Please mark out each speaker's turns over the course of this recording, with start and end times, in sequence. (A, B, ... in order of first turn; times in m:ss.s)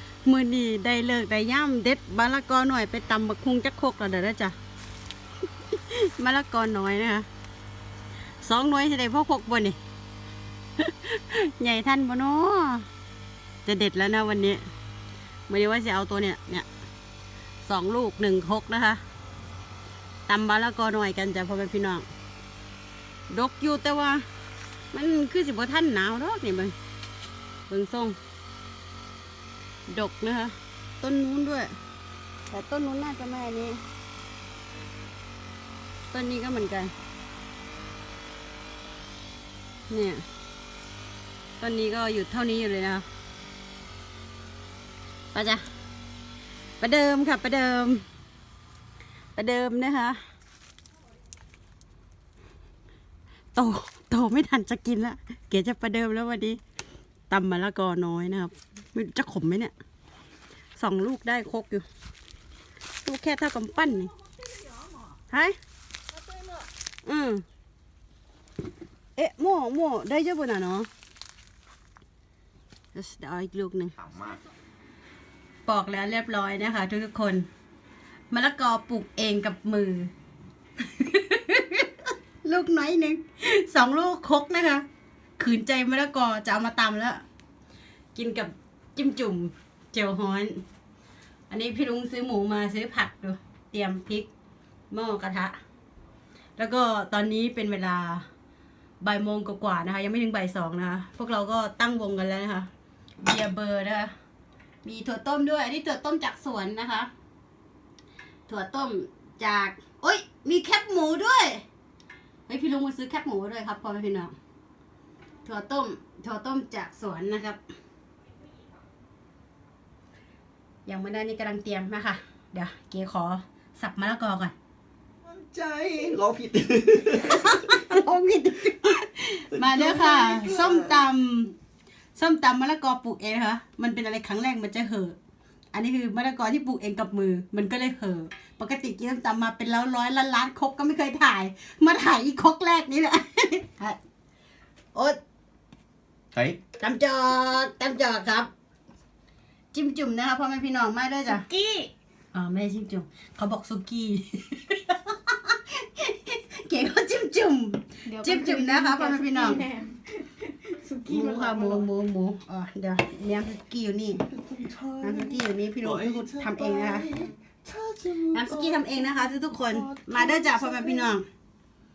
0:00.2-0:04.6 A
0:05.8-0:07.3 A
0:08.4-0:09.8 A
0:10.8-0:12.9 A
0:13.6-0:14.6 A
0:15.5-0:16.7 A
0:17.6-0:19.0 A
0:20.3-0:22.1 A
0:23.3-0:24.2 A
0:24.9-0:26.8 A
0:27.7-0:28.2 A
0:29.9-0:31.8 A
0:32.5-0:33.8 A
0:36.1-0:36.9 A
0:39.9-0:40.2 A
0:41.6-0:43.0 A
0:45.3-0:45.6 A
0:46.8-0:48.0 A
0:49.4-0:50.2 A
0:53.6-0:56.6 A
0:57.3-0:59.7 A
1:00.8-1:01.9 A
1:03.0-1:04.1 A
1:05.3-1:05.6 A
1:07.0-1:07.4 A
1:09.2-1:10.9 A
1:12.9-1:14.0 A
1:15.7-1:17.5 A
1:18.3-1:20.1 A
1:20.8-1:21.9 A
1:22.4-1:24.9 A
1:25.4-1:27.2 A
1:28.2-1:30.6 A
1:31.5-1:34.3 A
1:34.9-1:35.6 A
1:36.6-1:38.2 A
1:39.0-1:42.7 A
1:43.2-1:44.1 A
1:44.8-1:47.1 A
1:48.5-1:51.6 A
1:52.5-1:54.3 A
1:55.4-1:57.6 A
2:00.9-2:04.5 A
2:05.2-2:07.8 B
2:07.3-2:11.5 A
2:09.5-2:11.0 B
2:12.2-2:15.2 A
2:15.7-2:24.0 A
2:26.8-2:28.5 A
2:29.7-2:31.5 A
2:31.3-2:31.9 C
2:32.3-2:39.6 A
2:38.1-2:41.9 C
2:41.1-2:44.2 A
2:44.3-2:51.2 B
2:45.0-2:47.1 A
2:48.3-2:51.2 A